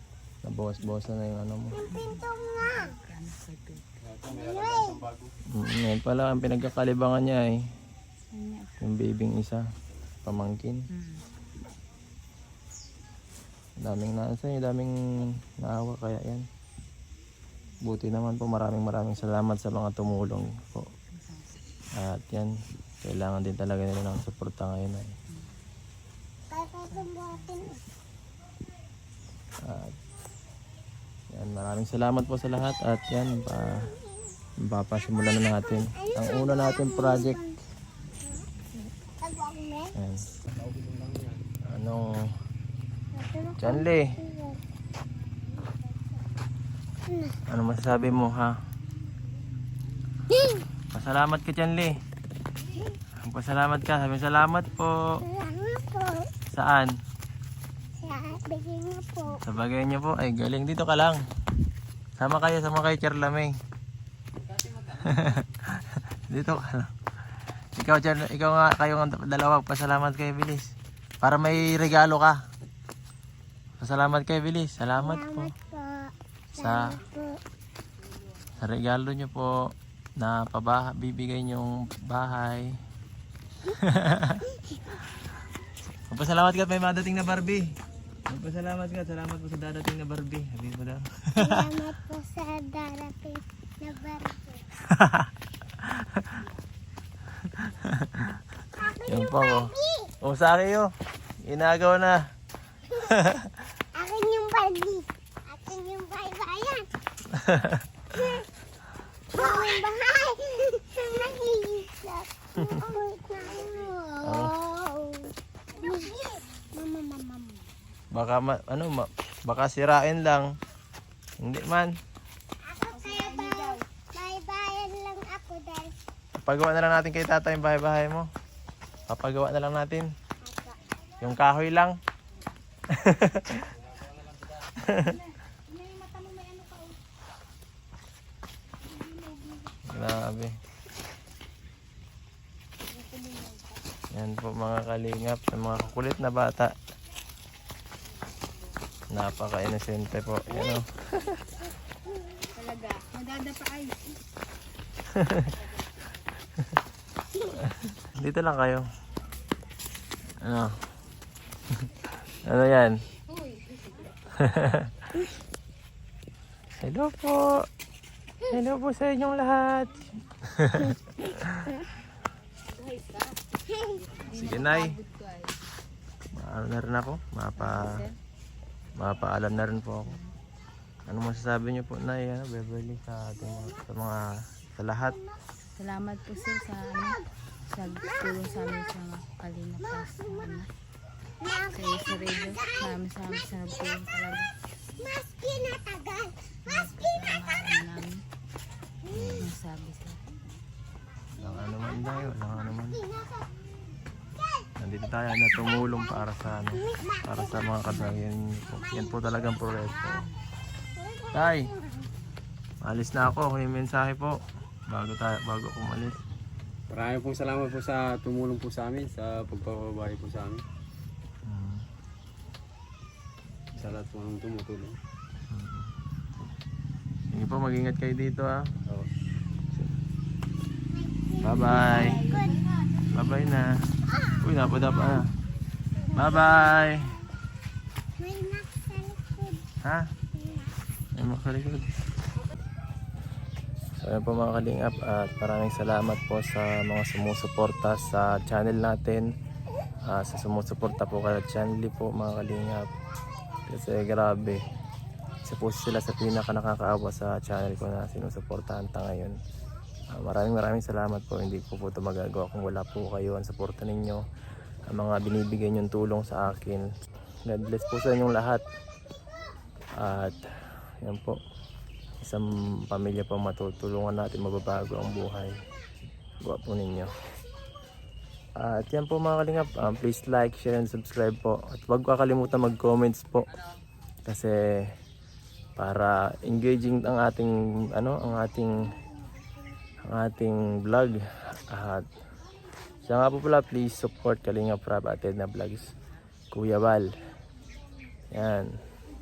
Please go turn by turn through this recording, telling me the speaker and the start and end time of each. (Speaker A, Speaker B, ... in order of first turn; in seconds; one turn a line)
Speaker A: 0.4-1.9
Speaker B: 1.8-3.0
Speaker C: 1.8-3.9
Speaker D: 4.0-5.3
Speaker B: 4.3-5.0
Speaker A: 5.5-7.6
Speaker C: 8.3-8.7
Speaker A: 8.8-9.6
Speaker A: 10.2-10.8
Speaker C: 10.9-11.2
Speaker A: 13.8-16.4
Speaker A: 17.8-20.9
Speaker C: 21.1-21.6
Speaker A: 22.0-25.1
Speaker C: 25.3-25.5
Speaker B: 26.5-27.8
Speaker C: 26.9-27.7
Speaker A: 29.6-30.0
Speaker A: 31.3-33.9
Speaker B: 33.8-34.1
Speaker A: 34.7-37.4
Speaker B: 35.9-37.6
Speaker B: 39.2-39.9
Speaker A: 40.0-40.2
Speaker D: 40.5-41.4
Speaker A: 41.6-42.3
Speaker B: 43.1-44.6
Speaker A: 43.6-44.1
Speaker B: 47.1-47.4
Speaker A: 47.5-48.5
Speaker B: 50.3-50.6
Speaker A: 50.9-51.9
Speaker A: 53.2-55.2
Speaker B: 55.2-56.3
Speaker A: 56.5-56.9
Speaker B: 58.0-59.4
Speaker A: 59.4-61.2
Speaker A: 62.2-63.5
Speaker D: 64.5-65.1
Speaker A: 65.0-66.9
Speaker A: 67.8-72.5
Speaker A: 73.8-75.5
Speaker B: 75.0-77.4
Speaker A: 76.5-77.0
Speaker A: 78.6-82.8
Speaker A: 83.8-84.4
Speaker A: 86.1-87.7
Speaker A: 88.3-91.6
Speaker B: 91.4-94.7
Speaker A: 94.8-95.3
Speaker A: 95.8-96.4
Speaker A: 97.5-98.4
Speaker B: 98.8-100.1
Speaker A: 99.0-100.9
Speaker A: 101.4-102.3
Speaker A: 102.8-103.6
Speaker B: 103.9-106.9
Speaker A: 107.3-107.8
Speaker B: 108.1-108.5
Speaker B: 109.3-117.6
Speaker A: 114.2-114.6
Speaker A: 118.1-120.5
Speaker A: 121.4-122.0
Speaker B: 122.6-126.0
Speaker C: 122.9-123.8
Speaker A: 126.4-128.3
Speaker A: 129.1-130.1
Speaker B: 130.4-130.8
Speaker A: 131.2-131.9
Speaker A: 132.9-133.7
Speaker A: 134.8-135.2
Speaker C: 135.0-137.0
Speaker C: 139.0-139.9
Speaker A: 139.9-140.5
Speaker C: 142.9-143.8
Speaker A: 144.1-146.7
Speaker A: 149.1-151.4
Speaker C: 152.5-154.2
Speaker A: 155.1-155.5
Speaker C: 155.6-155.8
Speaker A: 157.6-158.8
Speaker A: 160.4-160.8
Speaker A: 161.8-163.0
Speaker C: 163.3-164.1
Speaker A: 164.3-165.1
Speaker A: 166.8-167.6
Speaker A: 168.5-171.7
Speaker C: 172.7-175.6
Speaker A: 174.2-174.9
Speaker A: 176.3-178.0
Speaker C: 177.6-178.2
Speaker A: 179.0-180.2
Speaker C: 180.1-180.3
Speaker A: 181.1-185.2
Speaker C: 185.8-190.7
Speaker B: 191.4-192.9
Speaker C: 191.7-194.5
Speaker B: 194.9-196.4
Speaker C: 196.7-198.2
Speaker A: 199.1-199.5
Speaker C: 199.3-200.2
Speaker A: 201.4-203.0
Speaker B: 201.4-203.7
Speaker A: 204.8-210.2
Speaker B: 206.8-207.6
Speaker C: 207.8-208.2
Speaker B: 208.9-209.9
Speaker C: 210.1-210.4
Speaker B: 210.9-212.1
Speaker A: 211.3-211.7
Speaker A: 212.8-214.3
Speaker A: 214.9-216.2
Speaker D: 216.9-220.6
Speaker A: 221.4-221.8
Speaker D: 223.7-224.9
Speaker A: 225.5-225.9
Speaker A: 227.3-228.7
Speaker B: 230.9-232.6
Speaker A: 231.4-232.2
Speaker C: 231.5-233.6
Speaker A: 233.1-233.8
Speaker B: 234.1-234.5
Speaker A: 234.4-235.3
Speaker B: 236.0-236.8
Speaker A: 236.1-237.2
Speaker B: 238.2-239.6
Speaker B: 240.3-240.7
Speaker A: 241.2-241.9
Speaker A: 244.0-249.2
Speaker A: 250.1-252.9
Speaker A: 253.7-254.6
Speaker A: 255.4-259.4
Speaker A: 260.1-264.2
Speaker A: 264.9-266.8
Speaker A: 267.4-268.6
Speaker A: 270.0-270.5
Speaker A: 271.0-271.4
Speaker A: 272.2-275.6
Speaker A: 276.4-277.1
Speaker A: 278.6-283.4
Speaker A: 284.2-284.6
Speaker A: 285.8-288.9
Speaker A: 290.0-292.1
Speaker A: 293.0-295.9
Speaker A: 296.5-297.1
Speaker A: 298.3-298.7